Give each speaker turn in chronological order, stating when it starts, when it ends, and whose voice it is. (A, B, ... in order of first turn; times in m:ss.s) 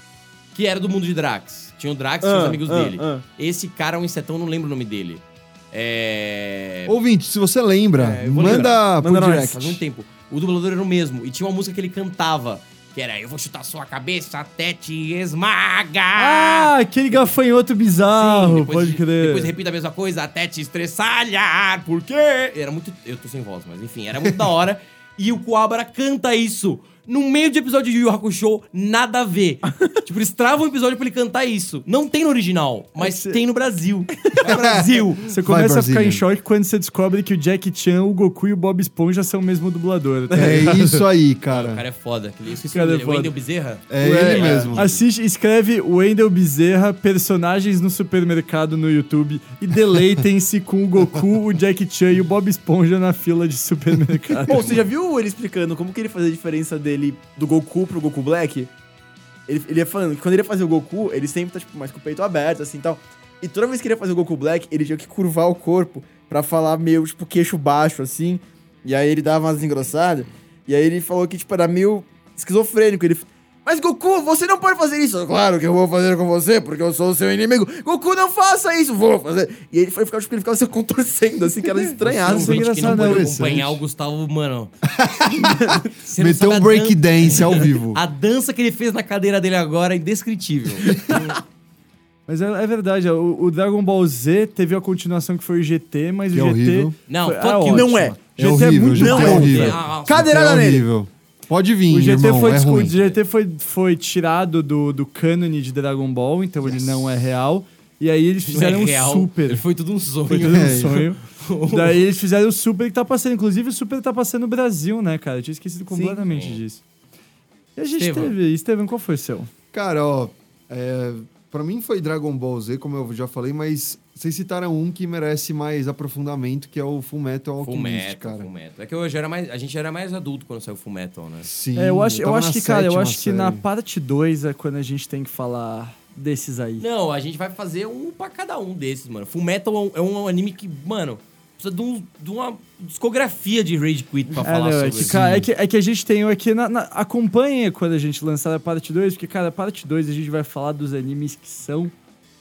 0:00.5-0:07.0 A
0:02.2-0:03.2 B
0:06.9-0:09.8 C
0:08.0-0:16.7 A
0:08.4-0:09.6 B
0:16.2-0:19.5 D
0:18.1-0:35.3 A
0:33.0-0:33.4 D
0:34.6-0:36.2 C
0:35.3-0:41.0 D
0:40.3-0:41.8 C
0:41.5-0:45.0 A
0:42.7-0:43.3 D
0:43.9-0:44.9 C
0:44.0-0:54.8 D
0:44.3-0:44.7 B
0:54.5-0:58.7 B
0:59.5-1:22.7 B
1:22.0-1:24.7 A
1:22.3-1:23.3 D
1:22.8-1:23.8 C
1:24.9-1:28.0 C
1:25.4-1:25.9 B
1:26.0-1:31.4 A
1:30.9-1:31.2 C
1:32.3-1:39.8 D
1:36.3-1:37.0 C
1:37.1-1:38.1 A
1:37.7-1:40.9 B
1:38.4-1:42.9 C
1:39.0-1:40.3 A
1:41.9-1:49.6 D
1:42.7-1:43.2 A
1:46.6-1:47.0 C
1:48.5-1:52.0 A
1:50.3-1:51.2 D
1:50.4-1:51.0 C
1:51.7-1:56.8 D
1:56.3-1:56.6 A
1:57.8-1:59.5 D
1:58.0-1:58.4 A
1:59.7-2:08.5 C
2:07.6-2:11.5 A
2:11.4-2:13.6 C
2:11.8-2:16.8 D
2:16.8-2:25.5 A
2:24.4-2:31.9 D